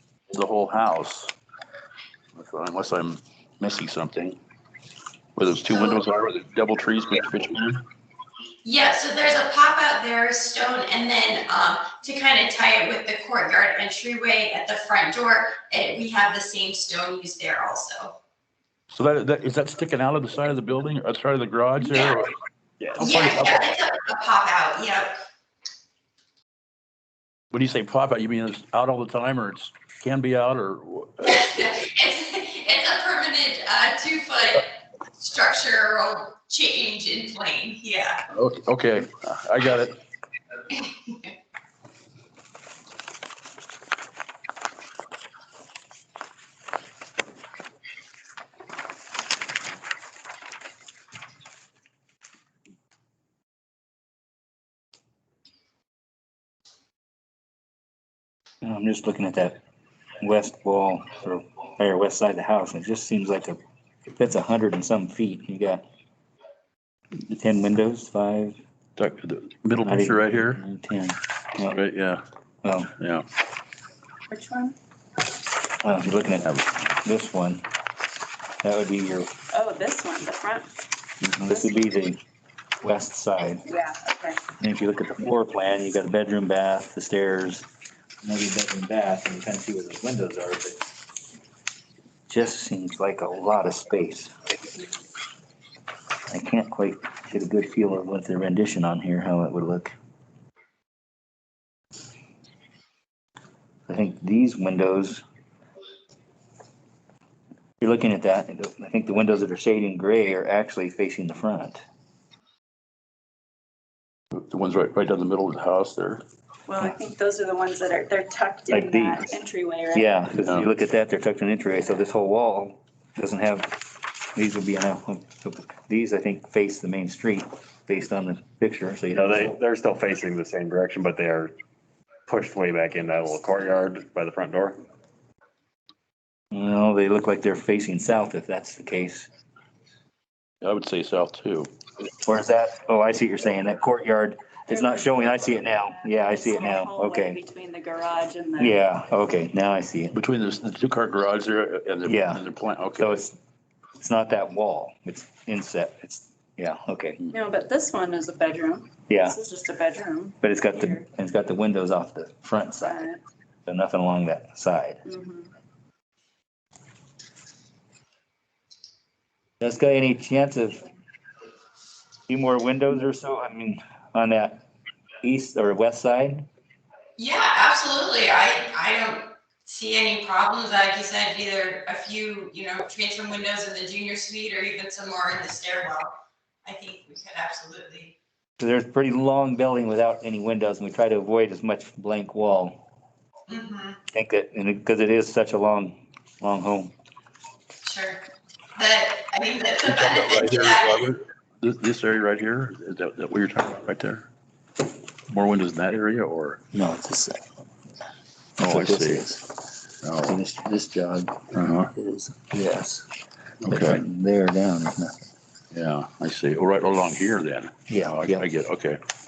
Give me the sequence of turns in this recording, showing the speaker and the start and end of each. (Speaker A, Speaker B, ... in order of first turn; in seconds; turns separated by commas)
Speaker A: 0.3-1.3, Speaker A: 2.4-4.4, Speaker A: 5.4-7.8, Speaker B: 5.7-6.0, Speaker B: 8.6-18.2, Speaker A: 18.9-23.7, Speaker B: 21.9-22.2, Speaker B: 23.0-25.1, Speaker A: 27.5-31.4, Speaker B: 31.2-38.2, Speaker A: 38.3-40.0, Speaker B: 40.7-41.3, Speaker C: 58.6-59.6, Speaker C: 60.2-65.8, Speaker C: 67.2-68.6, Speaker A: 69.0-70.6, Speaker C: 69.8-71.8, Speaker A: 71.7-72.2, Speaker C: 72.6-72.9, Speaker A: 73.0-73.3, Speaker D: 74.3-74.8, Speaker C: 75.8-77.7, Speaker C: 78.6-79.3, Speaker D: 79.5-80.7, Speaker C: 81.2-82.2, Speaker D: 81.5-81.8, Speaker C: 82.8-83.7, Speaker D: 83.7-84.4, Speaker C: 84.6-87.7, Speaker C: 88.2-90.9, Speaker C: 92.3-94.3, Speaker C: 96.3-99.9, Speaker C: 103.9-105.2, Speaker C: 107.8-111.8, Speaker A: 114.3-116.2, Speaker D: 116.7-120.1, Speaker C: 118.7-119.4, Speaker C: 119.9-123.8, Speaker C: 124.3-129.5, Speaker E: 129.1-131.5, Speaker E: 132.3-134.8, Speaker C: 136.5-139.3, Speaker A: 140.6-141.7, Speaker C: 142.2-147.4, Speaker D: 144.7-148.8, Speaker C: 148.6-150.1, Speaker A: 150.1-153.1, Speaker C: 152.1-152.4, Speaker C: 153.0-153.4, Speaker C: 154.0-157.2, Speaker D: 157.3-161.1, Speaker C: 159.1-159.4, Speaker C: 160.4-163.0, Speaker D: 162.8-163.2, Speaker C: 163.7-165.0, Speaker D: 165.0-165.5, Speaker C: 169.6-170.9, Speaker C: 172.3-174.6, Speaker C: 175.2-176.5, Speaker B: 177.2-188.2, Speaker C: 188.6-192.8, Speaker B: 193.5-194.0, Speaker C: 194.1-196.9, Speaker B: 197.8-198.2, Speaker B: 198.8-201.1, Speaker A: 199.8-204.3, Speaker A: 205.3-206.6, Speaker C: 206.7-207.5, Speaker C: 208.6-209.5, Speaker A: 208.6-209.3, Speaker A: 210.0-210.4, Speaker C: 210.3-211.4, Speaker A: 211.5-211.9, Speaker C: 211.9-213.1, Speaker A: 213.6-214.0, Speaker C: 213.7-215.2, Speaker A: 215.7-219.0, Speaker C: 217.9-218.5